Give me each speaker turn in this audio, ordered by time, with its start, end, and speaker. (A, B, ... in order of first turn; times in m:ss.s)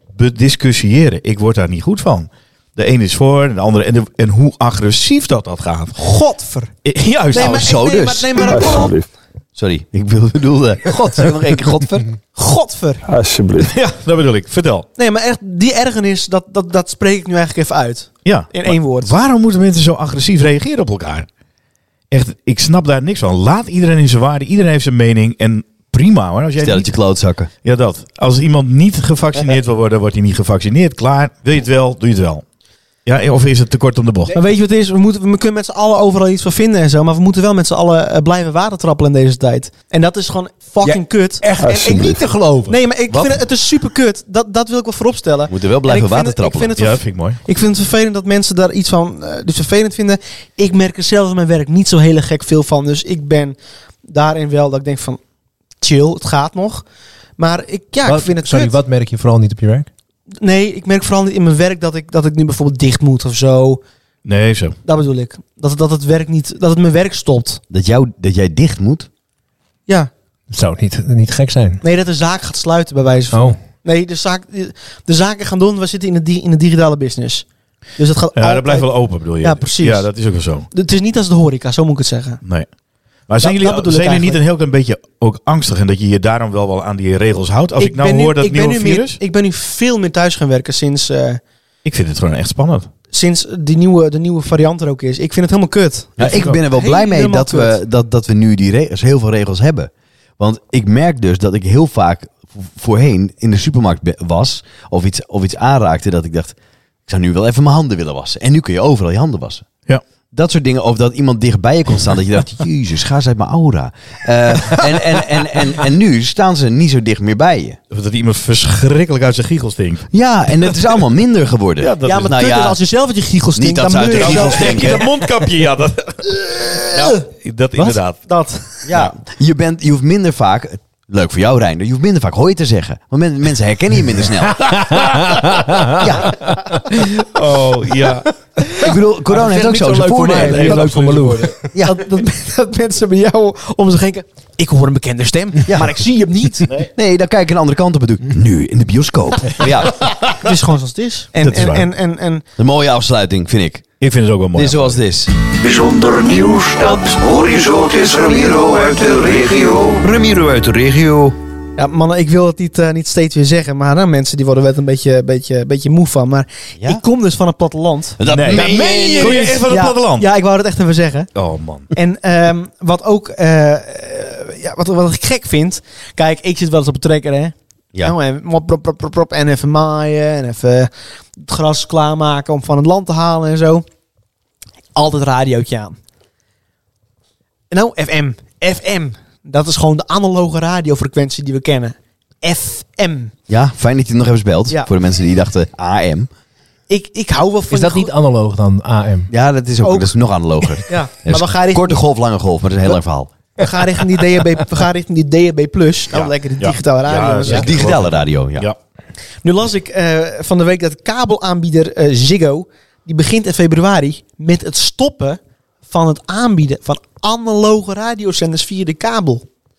0:00.1-0:06.0 A
0:06.0-0:06.7 B
0:06.8-0:07.7 A
0:07.3-0:09.0 B
0:07.3-0:08.8 C
0:08.4-0:09.1 D
0:09.5-0:12.1 C
0:12.3-0:13.0 B
0:13.0-0:13.7 D
0:13.7-0:14.9 A
0:15.0-0:19.1 B
0:18.2-0:21.3 A
0:22.1-0:26.9 A
0:26.6-0:27.5 C
0:27.6-0:32.4 A
0:33.0-0:34.3 A
0:34.3-0:42.1 B
0:40.8-0:42.8 E
0:41.6-0:42.3 D
0:42.7-0:55.2 B
0:45.5-0:46.7 C
0:46.8-0:47.4 A
0:55.8-0:56.8 B
0:57.4-0:58.7 B
0:58.0-0:59.9 E
1:00.4-1:03.8 B
1:04.2-1:04.8 A
1:04.8-1:07.6 B
1:07.7-1:09.1 C
1:10.5-1:11.8 E
1:11.8-1:17.4 B
1:13.3-1:13.6 E
1:18.0-1:18.9 B
1:18.4-1:20.7 A
1:19.4-1:20.1 B
1:20.7-1:22.4 B
1:23.3-1:29.2 A
1:23.4-1:24.4 B
1:27.8-1:31.4 B
1:31.8-1:32.9 A
1:33.1-1:37.8 B
1:36.2-1:46.5 C
1:36.2-1:36.6 A
1:47.1-1:49.6 C
1:50.3-1:57.8 C
1:57.9-2:00.1 A
2:00.1-2:02.8 C
2:00.6-2:01.0 A
2:01.8-2:02.4 A
2:02.0-2:05.1 B
2:03.5-2:05.0 C
2:04.1-2:08.2 A
2:06.9-2:07.2 B
2:07.8-2:08.8 B
2:08.8-2:14.7 C
2:14.5-2:16.8 E
2:16.0-2:16.3 C
2:16.9-2:18.3 A
2:18.8-2:20.9 C
2:19.2-2:21.7 E
2:20.3-2:21.6 A
2:21.7-2:22.0 C
2:21.8-2:26.7 B
2:25.7-2:26.0 C
2:26.9-2:30.1 C
2:30.2-2:32.4 B
2:31.4-2:31.9 A
2:32.6-2:33.8 C
2:34.0-2:35.0 A
2:34.5-2:41.4 C
2:41.8-2:51.3 B
2:48.2-2:49.5 C
2:48.3-2:50.3 A
2:51.3-2:51.9 A
2:51.9-3:03.8 B
3:04.9-3:06.0 B
3:07.7-3:13.3 B
3:13.5-3:16.3 C
3:16.9-3:18.1 B
3:17.7-3:19.3 E
3:19.3-3:23.3 C
3:19.8-3:20.1 B
3:20.7-3:22.0 B
3:23.6-3:27.7 B
3:26.1-3:28.8 A
3:27.5-3:28.7 C
3:29.4-3:39.4 B